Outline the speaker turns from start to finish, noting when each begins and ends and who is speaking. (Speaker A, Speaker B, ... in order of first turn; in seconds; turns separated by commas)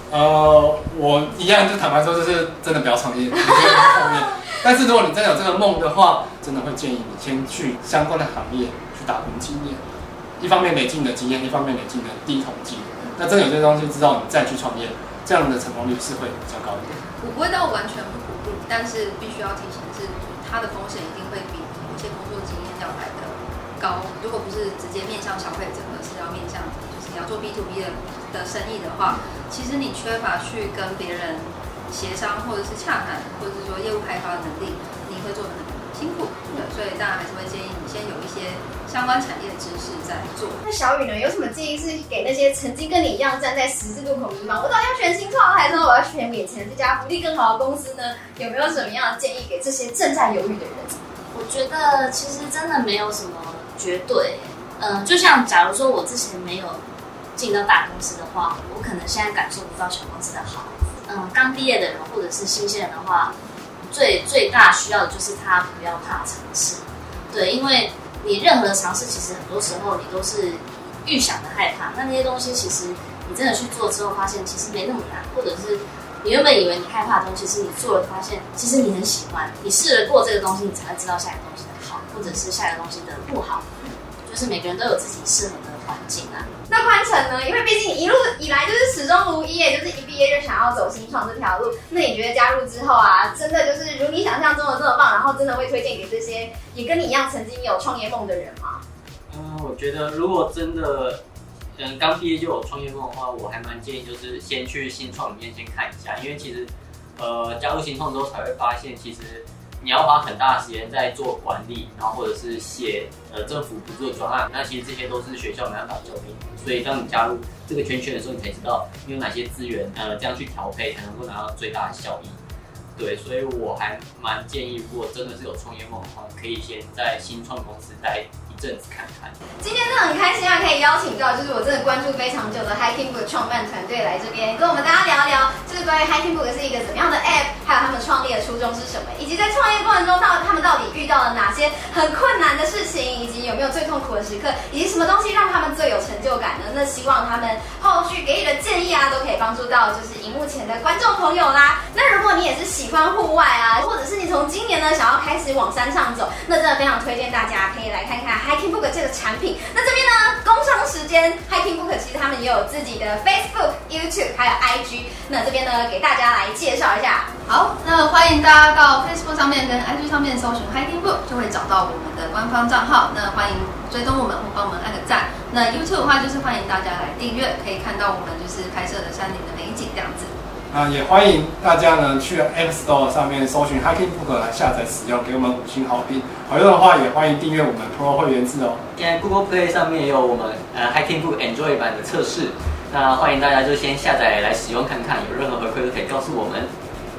Speaker A: 0.1-17.0, Speaker B: 17.2-40.6, Speaker C: 40.6-50.9, Speaker D: 51.3-56.8, Speaker D: 57.4-63.3, Speaker D: 63.9-83.7, Speaker D: 84.2-86.6, Speaker C: 86.7-98.8, Speaker E: 99.3-101.2, Speaker E: 101.8-122.4, Speaker E: 123.0-129.4, Speaker C: 129.6-167.3, Speaker B: 167.4-180.3, Speaker A: 180.7-188.8, Speaker E: 188.9-196.7